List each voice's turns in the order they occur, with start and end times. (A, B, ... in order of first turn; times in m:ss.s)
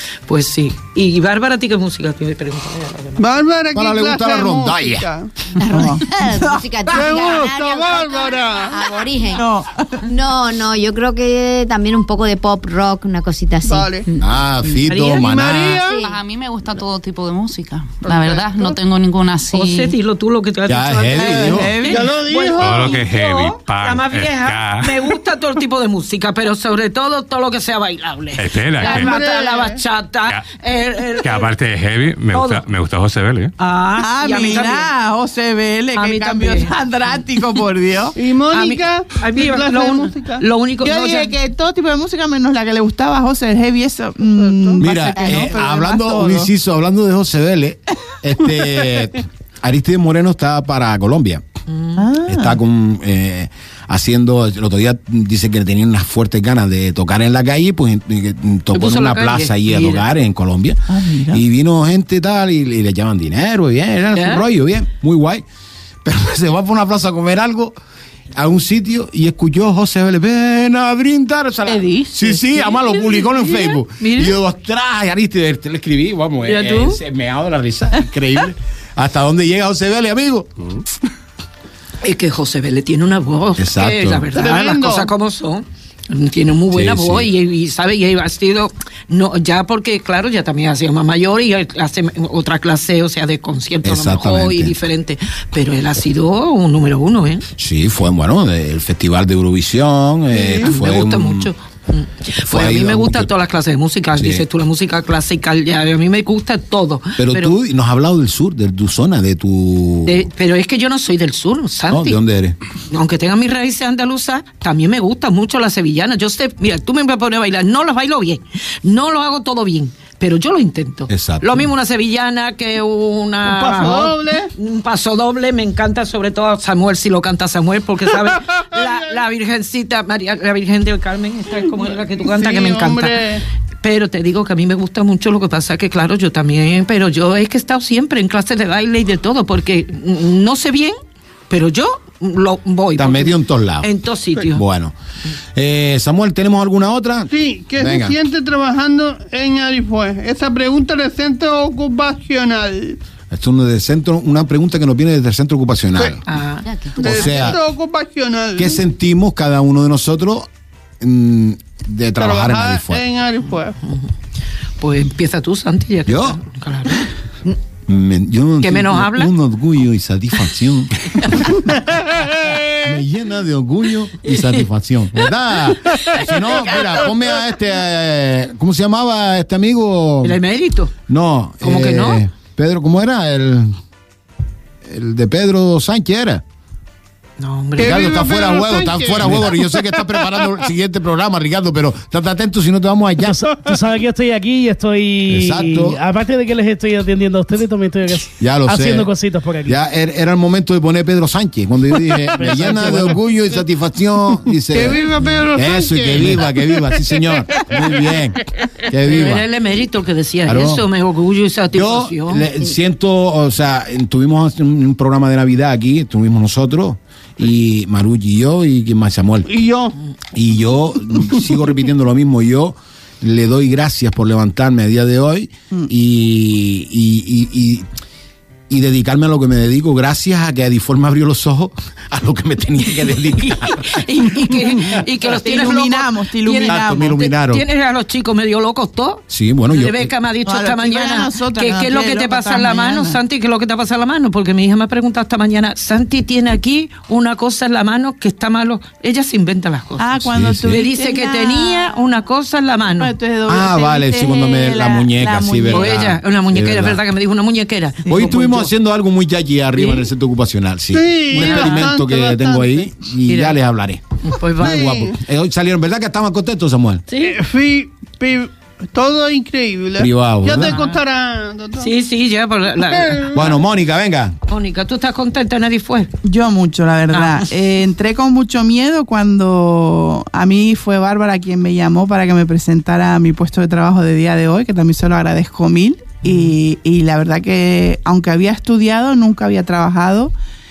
0:00.3-0:03.3 A
0:03.2-0:05.3 B
0:03.7-0:05.1 C
0:05.6-0:09.4 D
0:05.6-0:06.1 E
0:06.9-0:09.0 B
0:09.3-0:10.0 E
0:10.0-0:14.8 D
0:13.6-0:14.1 B
0:14.2-0:15.8 C
0:14.9-0:15.2 A
0:15.0-0:16.1 B
0:16.0-0:19.9 F
0:18.1-0:18.6 B
0:19.5-0:31.5 A
0:20.7-0:21.7 C
0:21.2-0:22.0 E
0:21.8-0:23.0 B
0:22.6-0:24.9 G
0:28.4-0:29.2 G
0:28.8-0:29.8 B
0:31.2-0:33.5 G
0:32.3-0:32.6 A
0:33.6-0:34.9 A
0:34.0-0:38.1 E
0:35.9-0:36.7 A
0:38.1-0:40.4 B
0:38.5-0:41.3 A
0:40.8-0:46.5 E
0:44.3-0:44.9 B
0:44.8-0:51.4 C
0:51.7-0:52.0 A
0:52.0-0:52.6 E
0:52.3-1:05.4 C
0:58.7-1:00.1 A
1:00.9-1:01.4 E
1:04.1-1:04.4 A
1:06.0-1:07.8 C
1:08.3-1:20.8 C
1:11.7-1:12.5 E
1:12.6-1:14.4 A
1:16.4-1:17.0 A
1:22.0-1:37.4 A
1:23.6-1:24.3 C
1:24.3-1:25.1 B
1:26.7-1:27.3 C
1:33.8-1:34.8 C
1:37.6-1:41.5 C
1:40.6-1:47.6 A
1:42.4-1:43.3 C
1:44.1-1:44.4 C
1:47.2-1:50.3 C
1:50.1-1:52.2 A
1:51.9-1:52.6 C
1:52.9-2:13.2 A
2:01.1-2:01.6 C
2:03.4-2:04.5 B
2:08.2-2:09.1 B
2:11.6-2:13.4 B
2:13.8-2:21.0 A
2:21.5-2:24.6 A
2:23.0-2:24.9 C
2:25.5-2:28.1 C
2:27.3-2:33.0 B
2:33.3-2:36.2 C
2:36.3-2:36.6 A
2:36.6-2:37.6 D
2:37.0-2:38.8 B
2:37.0-2:37.6 C
2:38.6-2:40.5 C
2:41.0-2:43.0 C
2:42.2-2:43.8 B
2:44.8-2:47.1 A
2:46.1-2:46.4 C
2:47.9-2:51.4 C
2:48.6-2:49.3 A
2:51.7-2:52.8 B
2:52.8-3:00.4 C
2:54.2-2:54.6 A
2:56.1-2:56.7 A
3:00.2-3:00.9 A
3:01.1-3:03.8 C
3:01.6-3:02.2 A
3:04.8-3:06.4 C
3:07.4-3:08.1 A
3:07.8-3:10.5 B
3:07.8-3:13.5 C
3:13.4-3:19.8 H
3:15.3-3:16.0 C
3:18.4-3:19.1 C
3:19.6-3:29.4 C
3:22.4-3:23.2 H
3:24.7-3:28.1 B
3:29.0-3:32.5 A
3:30.4-3:30.9 C
3:31.7-3:39.5 C
3:39.4-3:40.0 B
3:40.3-3:47.9 C
3:48.7-3:55.0 C
3:53.4-4:10.1 A
3:55.4-3:57.2 E
3:56.6-3:57.6 C
3:59.3-4:00.1 C
4:00.4-4:03.2 E
4:10.0-4:12.1 E
4:10.3-4:10.8 C
4:10.7-4:13.1 A
4:13.0-4:16.0 E
4:13.5-4:17.0 C
4:15.7-4:18.7 A
4:18.1-4:24.0 C
4:19.8-4:20.1 A
4:20.9-4:22.9 B
4:21.4-4:21.8 A
4:23.3-4:23.6 A
4:24.2-4:24.9 A
4:24.6-4:27.0 C
4:24.6-4:25.2 B
4:27.1-4:27.4 A
4:27.2-4:31.9 B
4:30.0-4:30.8 C
4:30.7-4:31.0 A
4:31.8-4:33.4 A
4:32.9-4:33.5 B
4:33.3-4:34.4 C
4:34.5-4:36.1 A
4:36.2-4:50.3 E
4:37.1-4:37.4 A
4:46.2-4:46.5 A